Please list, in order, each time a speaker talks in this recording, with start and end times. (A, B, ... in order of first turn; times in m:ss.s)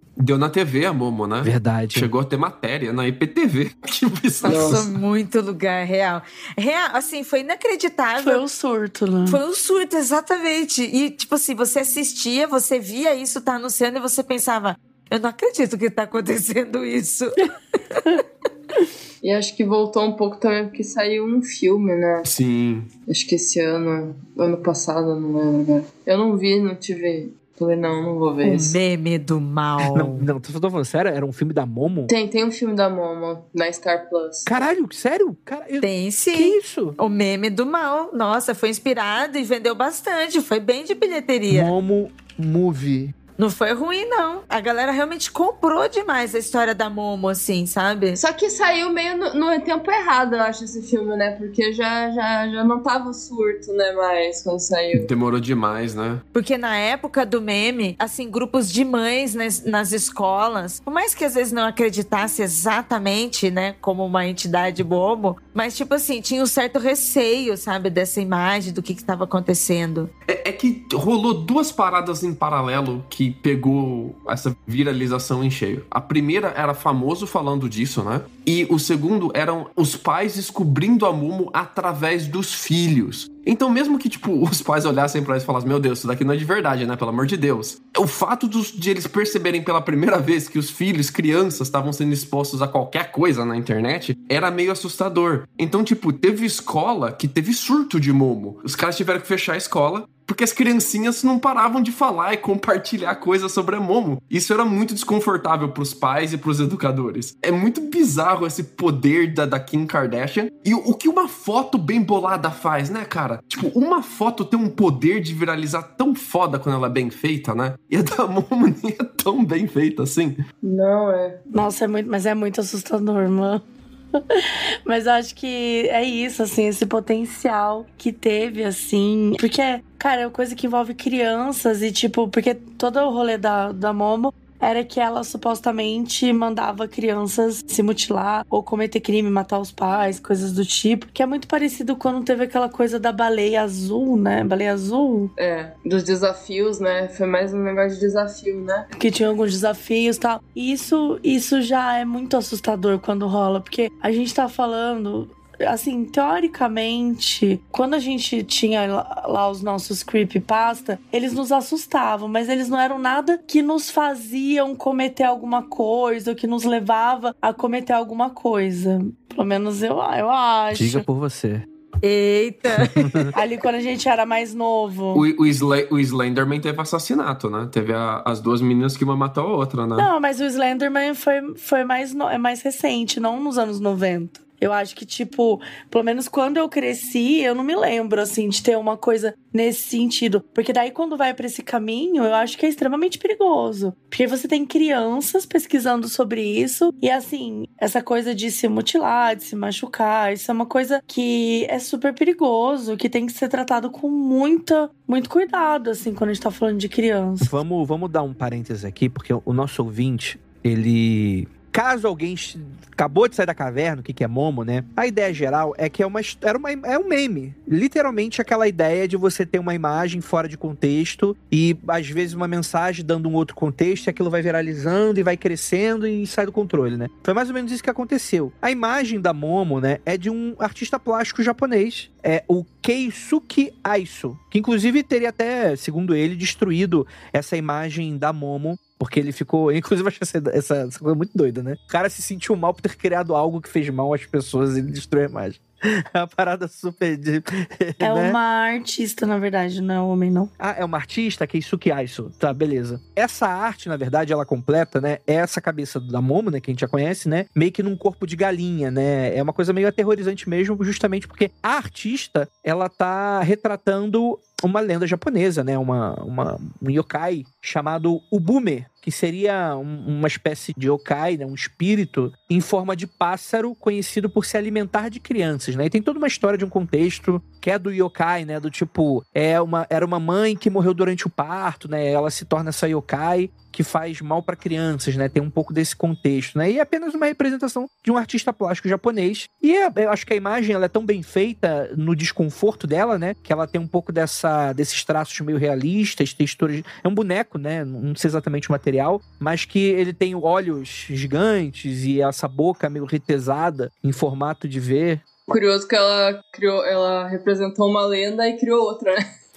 0:00.2-0:04.9 A
0:01.4-0:02.1 B
0:04.4-0:04.8 C
0:04.4-0:08.4 D
0:08.2-0:09.4 E
0:09.3-0:18.0 D
0:19.2-0:22.3 C
0:22.2-0:22.9 A
0:23.1-0:28.7 C
0:28.4-0:30.3 D
0:29.8-0:32.1 B
0:32.1-0:34.5 C
0:34.4-0:37.0 B
0:35.8-0:41.7 D
0:41.5-0:43.1 B
0:43.4-0:48.2 D
0:48.2-0:55.1 C
0:54.9-0:56.2 A
0:56.3-1:10.1 D
1:10.3-2:00.4 A
2:00.6-2:01.4 C
2:01.5-2:03.6 E
2:04.2-2:25.3 E
2:25.4-2:28.9 C
2:28.9-2:51.0 E
2:50.7-2:51.6 B
2:52.0-2:53.3 D
2:52.7-2:53.3 B
2:53.3-2:55.2 E
2:55.1-3:00.1 A
3:00.0-3:27.5 E
3:27.4-4:08.4 B
4:08.0-4:10.5 E
4:10.6-5:05.2 B
5:05.5-5:09.2 C